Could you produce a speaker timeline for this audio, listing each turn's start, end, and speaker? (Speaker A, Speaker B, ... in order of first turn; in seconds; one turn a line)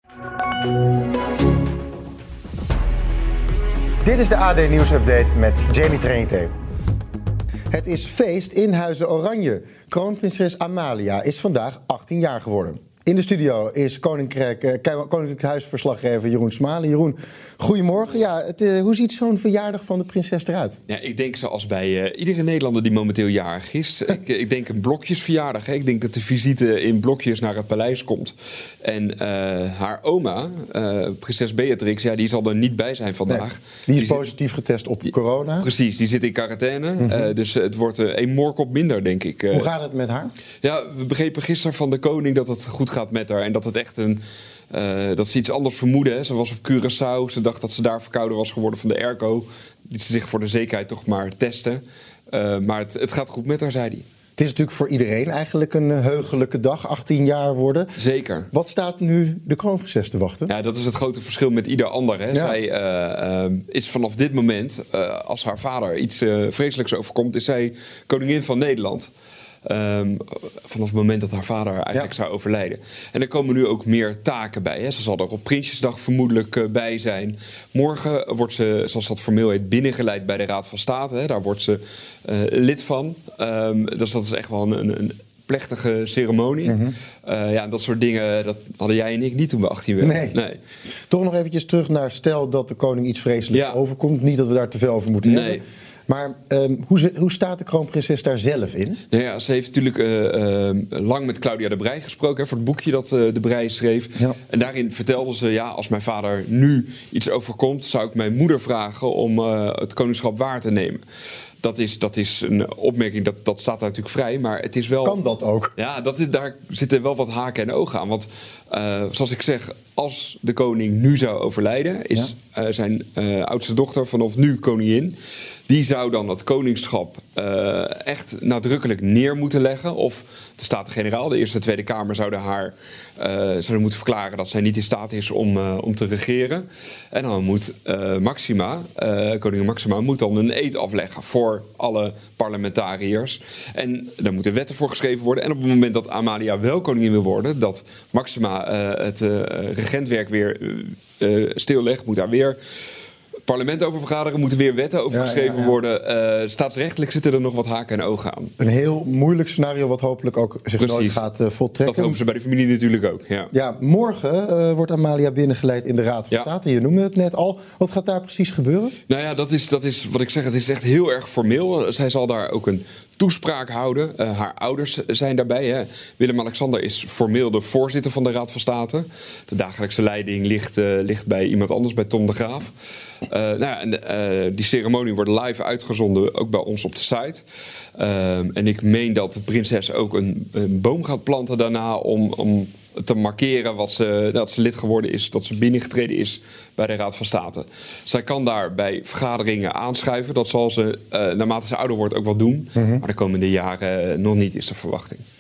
Speaker A: 4.0-6.5
Speaker A: 7.7-20.8
Speaker B: 20.9-34.3
Speaker A: 33.3-35.7
Speaker B: 35.6-39.7
Speaker A: 37.0-37.3
Speaker A: 39.5-40.3
Speaker B: 40.6-44.2
Speaker B: 44.7-54.0
Speaker A: 54.4-57.9
Speaker B: 58.0-58.5
Speaker A: 58.5-60.5
Speaker B: 60.5-69.1
Speaker A: 62.3-62.6
Speaker B: 69.7-90.6
Speaker A: 86.7-87.0
Speaker A: 90.0-90.4
Speaker A: 91.1-99.0
Speaker B: 93.5-93.8
Speaker B: 95.2-95.6
Speaker B: 99.1-111.0
Speaker B: 111.6-115.2
Speaker A: 115.0-115.7
Speaker B: 115.8-125.2
Speaker B: 125.7-152.6
Speaker B: 153.5-158.5
Speaker A: 155.1-155.8
Speaker A: 158.6-162.2
Speaker B: 160.8-161.2
Speaker B: 161.8-163.5
Speaker A: 163.5-168.9
Speaker B: 169.1-182.7
Speaker B: 183.3-187.4
Speaker B: 188.0-205.2
Speaker A: 202.8-203.0